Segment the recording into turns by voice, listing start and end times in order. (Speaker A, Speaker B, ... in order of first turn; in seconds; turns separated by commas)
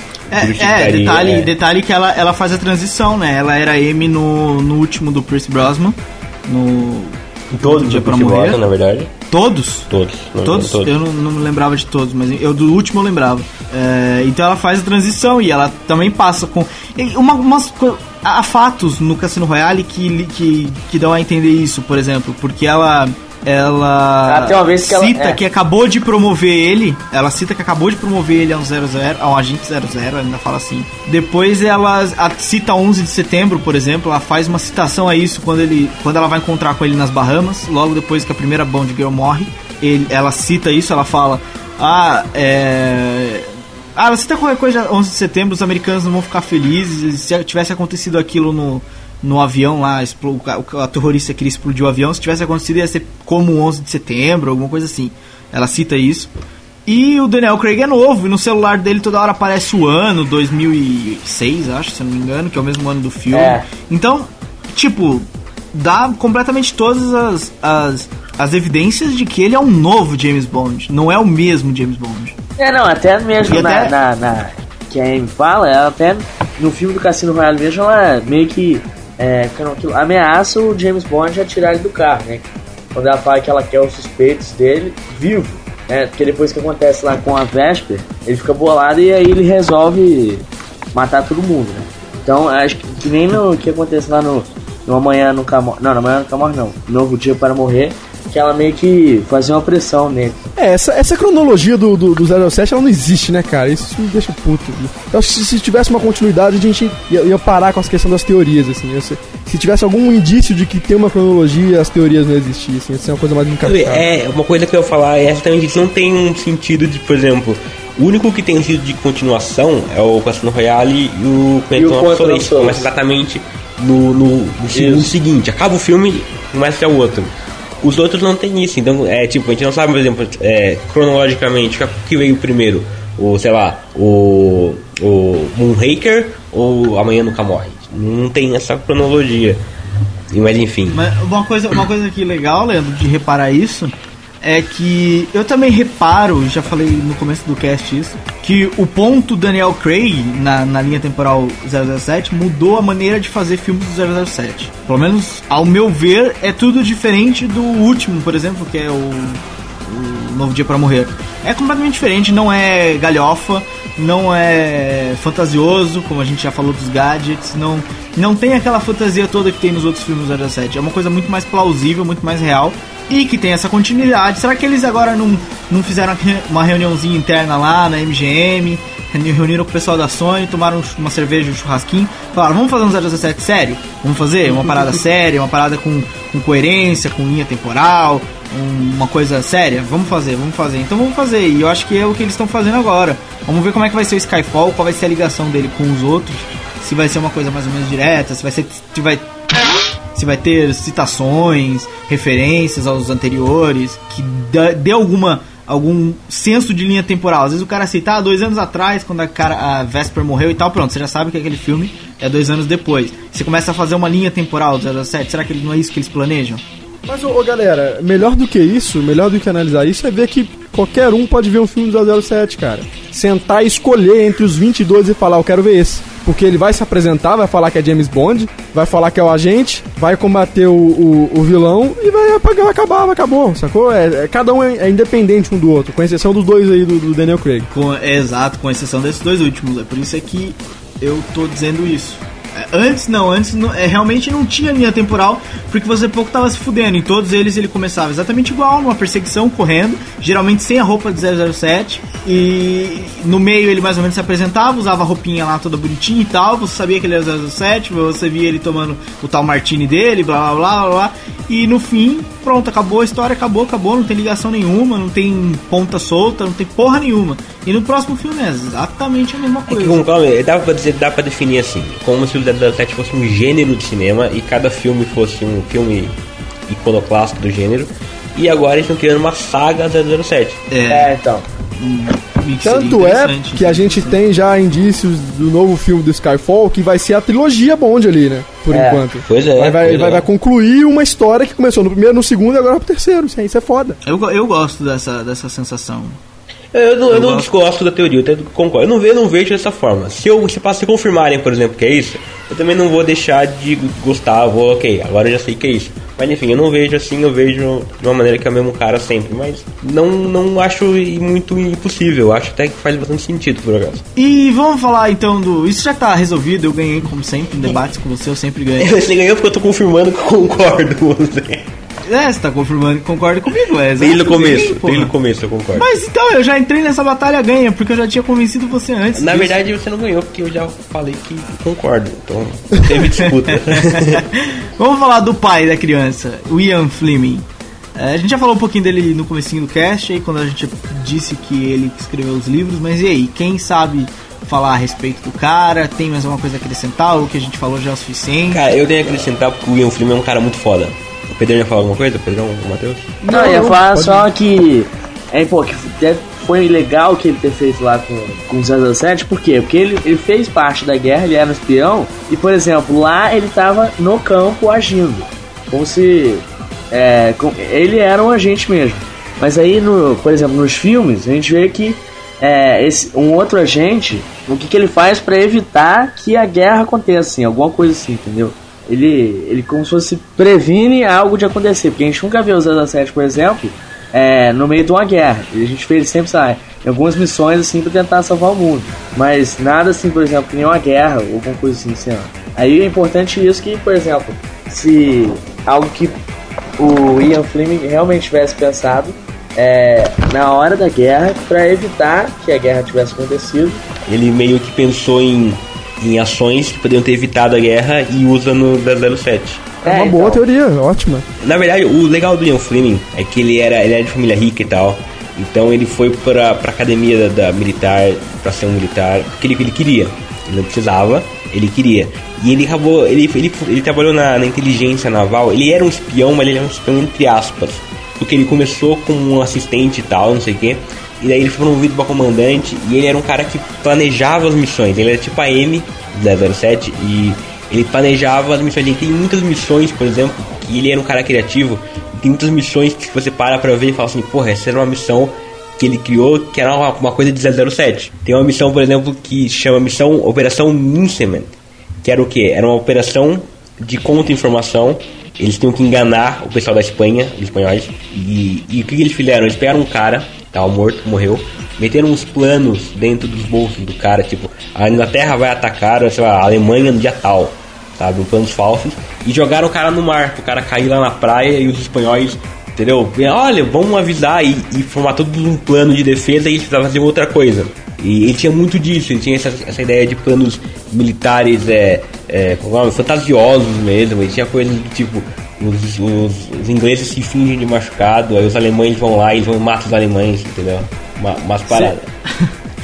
Speaker A: 0.3-8.6, Speaker B: 0.3-1.5, Speaker B: 7.5-9.1, Speaker A: 9.3-9.9, Speaker B: 9.9-10.9, Speaker A: 10.4-56.3, Speaker C: 24.3-25.4, Speaker A: 56.9-72.3, Speaker C: 63.3-63.7, Speaker C: 72.6-100.4, Speaker A: 73.4-73.9, Speaker D: 100.5-114.0, Speaker B: 113.6-139.6, Speaker C: 121.7-122.9, Speaker C: 124.7-125.1, Speaker B: 140.3-141.0, Speaker A: 140.9-199.3, Speaker A: 200.1-216.6, Speaker D: 217.1-237.7, Speaker A: 237.7-270.0, Speaker B: 269.7-276.1, Speaker B: 276.7-280.6, Speaker A: 280.7-281.1, Speaker C: 280.9-281.4, Speaker A: 281.8-284.2, Speaker D: 282.6-294.0, Speaker C: 288.7-289.0, Speaker B: 289.2-290.2, Speaker A: 294.0-296.2, Speaker B: 296.7-314.0, Speaker A: 297.1-297.5, Speaker A: 314.1-319.0, Speaker B: 318.8-321.6, Speaker A: 322.1-325.1, Speaker B: 324.0-325.9, Speaker A: 325.8-329.6, Speaker B: 329.1-334.2, Speaker A: 333.2-337.4, Speaker A: 337.9-348.7, Speaker B: 348.5-353.1, Speaker D: 353.2-354.3, Speaker C: 353.3-396.2, Speaker C: 396.8-403.8, Speaker B: 404.1-409.8, Speaker C: 409.8-410.4, Speaker D: 409.8-411.2, Speaker B: 411.4-492.1, Speaker A: 491.7-492.4